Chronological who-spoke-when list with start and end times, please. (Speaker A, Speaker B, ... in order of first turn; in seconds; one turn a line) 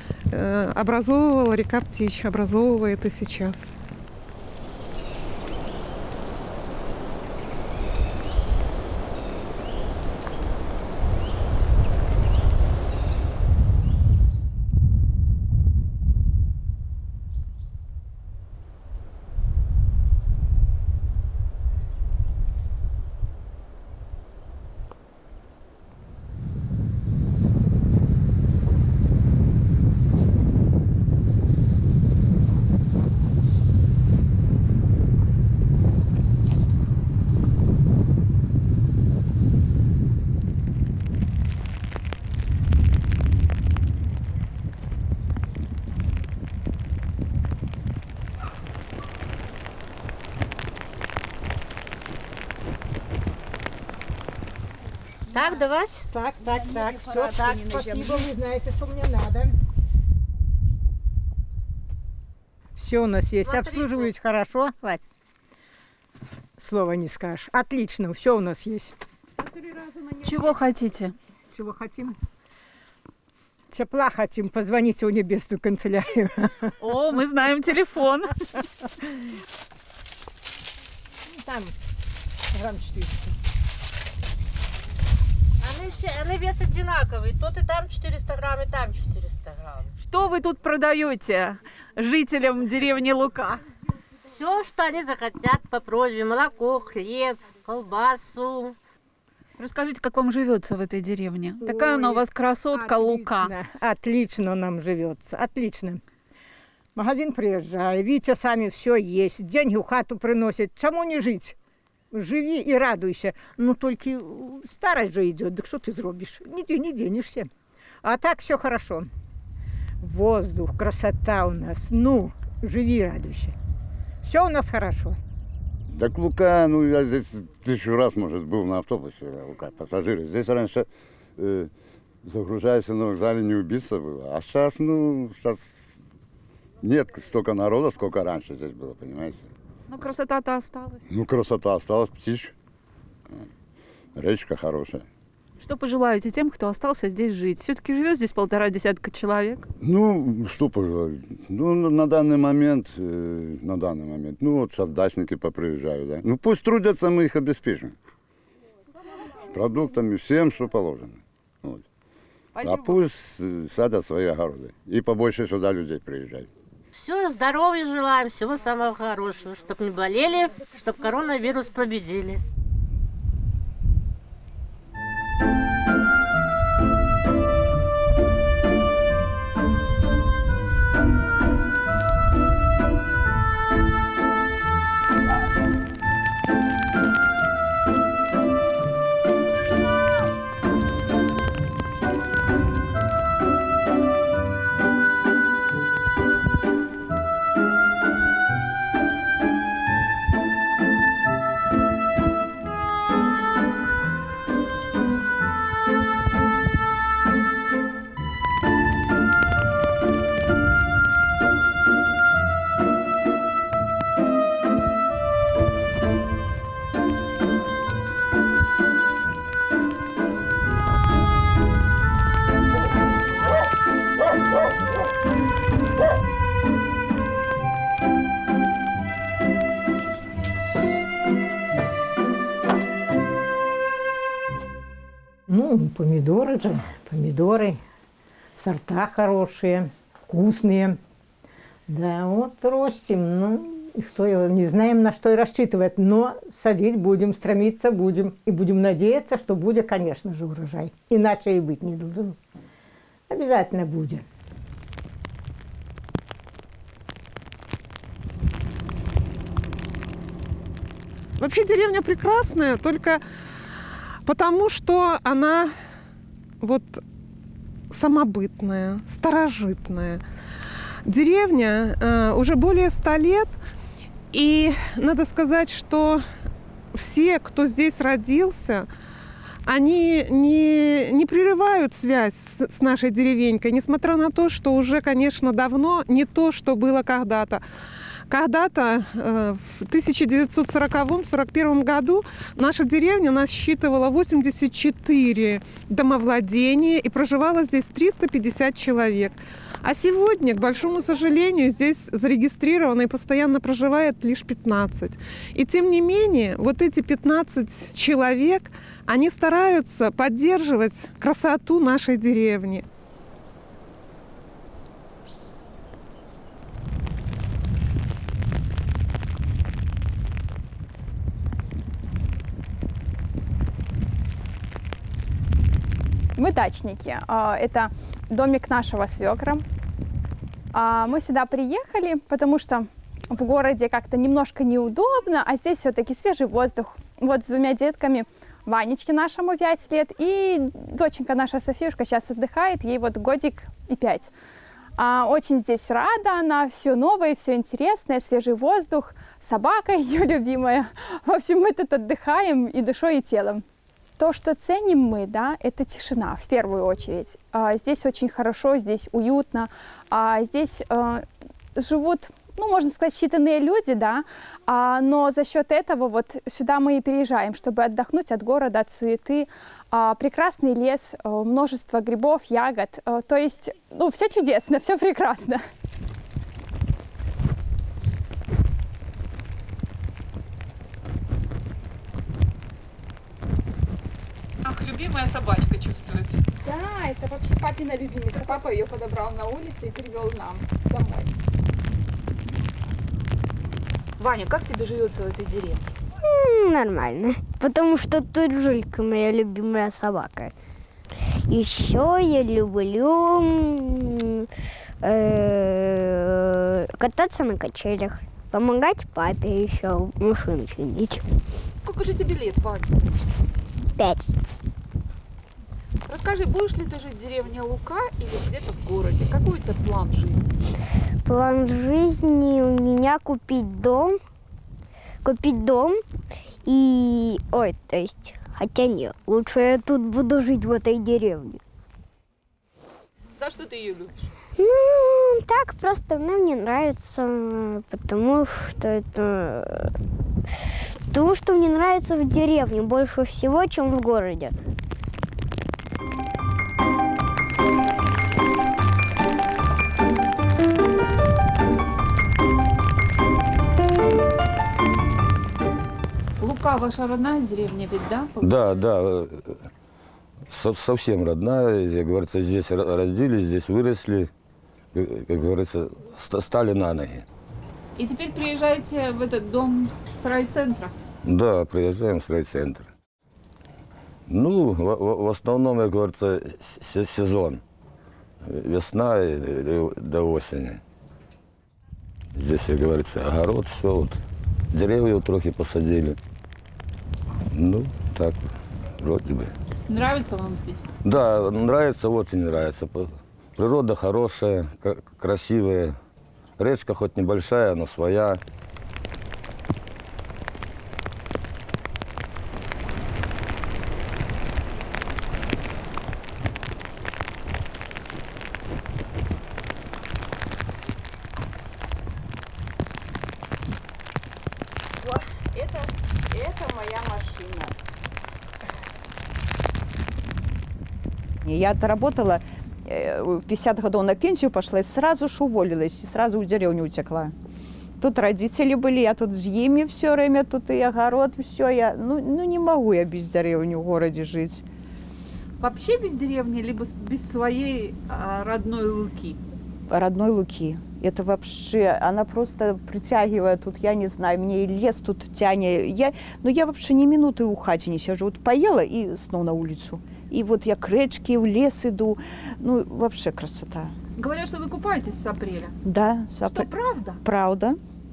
Speaker A: 0.3-3.7
Speaker B: 55.3-56.0
Speaker C: 56.1-59.5
Speaker C: 62.8-65.1
Speaker B: 63.4-64.1
Speaker C: 66.6-68.9
Speaker D: 70.2-71.1
Speaker C: 70.2-70.5
Speaker C: 71.5-72.2
Speaker C: 73.7-77.0
Speaker D: 76.8-78.3
Speaker C: 81.3-81.7
Speaker C: 82.5-83.3
Speaker B: 85.6-89.9
Speaker D: 90.0-93.6
Speaker B: 94.3-98.8
Speaker D: 99.6-103.5
Speaker C: 101.6-106.0
Speaker C: 106.9-111.5
Speaker C: 112.1-117.5
Speaker C: 118.0-119.1
Speaker C: 120.0-123.5
Speaker C: 124.2-125.2
Speaker E: 125.9-131.7
Speaker E: 132.2-135.6
Speaker E: 136.8-139.5
Speaker D: 139.9-141.0
Speaker E: 141.1-142.5
Speaker E: 144.1-145.0
Speaker D: 145.6-149.7
Speaker E: 149.8-157.9
Speaker E: 159.5-161.8
Speaker E: 162.6-166.5
Speaker B: 166.9-172.4
Speaker C: 235.5-237.8
Speaker C: 238.6-241.0
Speaker C: 241.9-252.4
Speaker C: 253.3-254.2
Speaker A: 261.4-263.2
Speaker A: 264.2-265.7
Speaker A: 266.6-267.0
Speaker A: 267.9-270.2
Speaker A: 271.1-273.6
Speaker A: 274.3-276.2
Speaker A: 276.9-278.9
Speaker A: 279.7-287.6
Speaker A: 288.3-312.8
Speaker F: 326.4-329.6
Speaker F: 330.7-344.3
Speaker F: 345.0-353.6
Speaker F: 354.2-361.2
Speaker F: 361.8-375.6
Speaker D: 384.6-386.4
Speaker F: 386.6-391.3
Speaker D: 394.2-395.8
Speaker G: 396.2-400.5
Speaker G: 401.5-404.3
Speaker G: 405.0-411.2
Speaker D: 411.8-412.9
Speaker G: 414.0-414.2
Speaker D: 416.1-420.4
Speaker G: 421.2-424.2
Speaker G: 425.2-426.0
Speaker G: 426.6-431.6
Speaker D: 433.4-434.3
Speaker G: 434.6-439.9
Speaker G: 441.1-444.5
Speaker D: 456.4-458.9
Speaker H: 458.4-459.6
Speaker H: 460.5-464.3
Speaker H: 464.9-467.2
Speaker D: 468.0-470.9
Speaker H: 471.2-472.9
Speaker H: 474.3-477.6
Speaker H: 478.4-480.8
Speaker H: 482.4-484.2
Speaker H: 484.7-486.2
Speaker H: 487.5-488.4
Speaker H: 489.0-489.5
Speaker D: 489.9-490.9
Speaker H: 491.0-496.0
Speaker H: 496.6-498.4
Speaker I: 515.0-517.8
Speaker I: 521.4-527.3
Speaker I: 528.0-534.6
Speaker D: 535.6-539.4
Speaker I: 539.9-553.9
Speaker D: 554.2-555.7
Speaker I: 555.8-556.7
Speaker D: 556.4-557.2
Speaker I: 557.2-557.8